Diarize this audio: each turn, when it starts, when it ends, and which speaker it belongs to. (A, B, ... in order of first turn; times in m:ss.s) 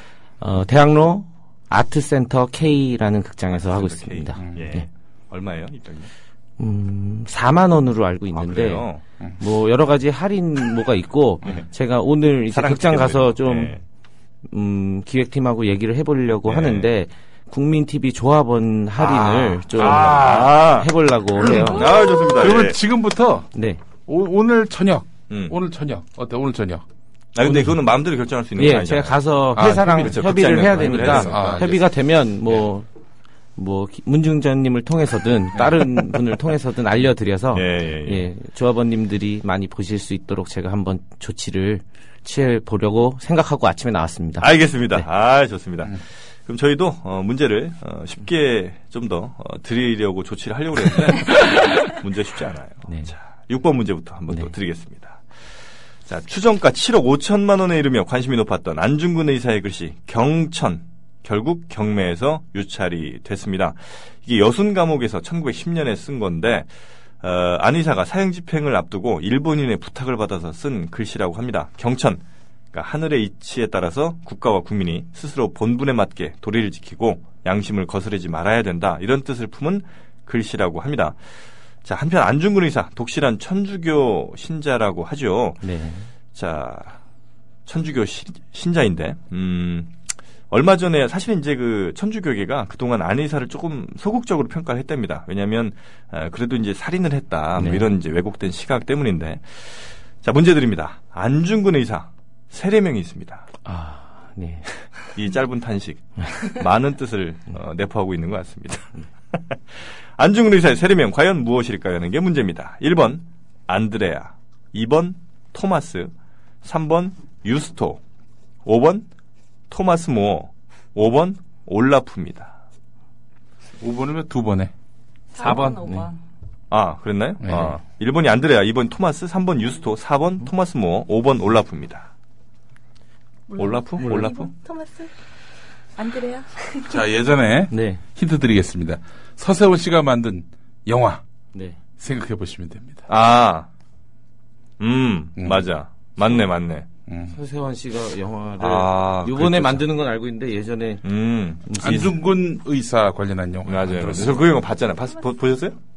0:00.4-0:04.8 A
0:03.5-0:06.1 B
0:06.6-0:08.8 A
0:08.3-0:09.0 B
0:09.4-0:13.7 A
0:12.5-0:13.8 B
0:14.4-0:21.9 A
0:16.5-0:16.9 B
0:19.3-0:22.8 B
0:19.7-0:20.6 C
0:21.4-0:23.5 C
0:23.5-0:23.8 A
0:24.1-0:26.8 C
0:25.3-0:25.6 B
0:27.3-0:31.8 B
0:27.4-0:27.8 A
0:28.6-0:32.9 A
0:29.5-0:30.2 C
0:30.8-0:31.8 C
0:33.6-0:45.0 A
0:37.5-0:38.3 B
0:44.4-0:55.2 B
0:52.9-0:53.1 A
0:56.0-1:06.7 B
1:07.2-1:12.2 B
1:12.7-1:21.2 B
1:21.8-1:25.6 B
1:25.6-1:26.1 A
1:26.3-1:27.0 B
1:27.6-1:29.9 B
1:30.5-1:39.6 B
1:37.6-1:37.9 A
1:40.2-1:43.5 B
1:43.6-1:44.8 A
1:45.1-1:56.1 B
1:56.6-1:58.0 B
1:58.6-1:59.0 B
1:59.7-2:02.5 B
2:03.8-2:04.7 C
2:05.4-2:06.2 D
2:05.4-2:06.1 A
2:06.7-2:12.1 B
2:07.4-2:07.8 C
2:13.5-2:15.1 D
2:13.6-2:14.5 B
2:16.0-2:17.0 D
2:16.9-2:21.2 C
2:17.7-2:18.0 A
2:22.0-2:23.0 C
2:23.1-2:23.7 B
2:24.8-2:26.9 B
2:25.4-2:25.7 C
2:27.1-2:27.4 C
2:27.3-2:31.0 A
2:28.6-2:29.8 B
2:31.0-2:32.0 B
2:31.6-2:32.1 A
2:31.8-2:34.4 C
2:33.6-2:35.8 B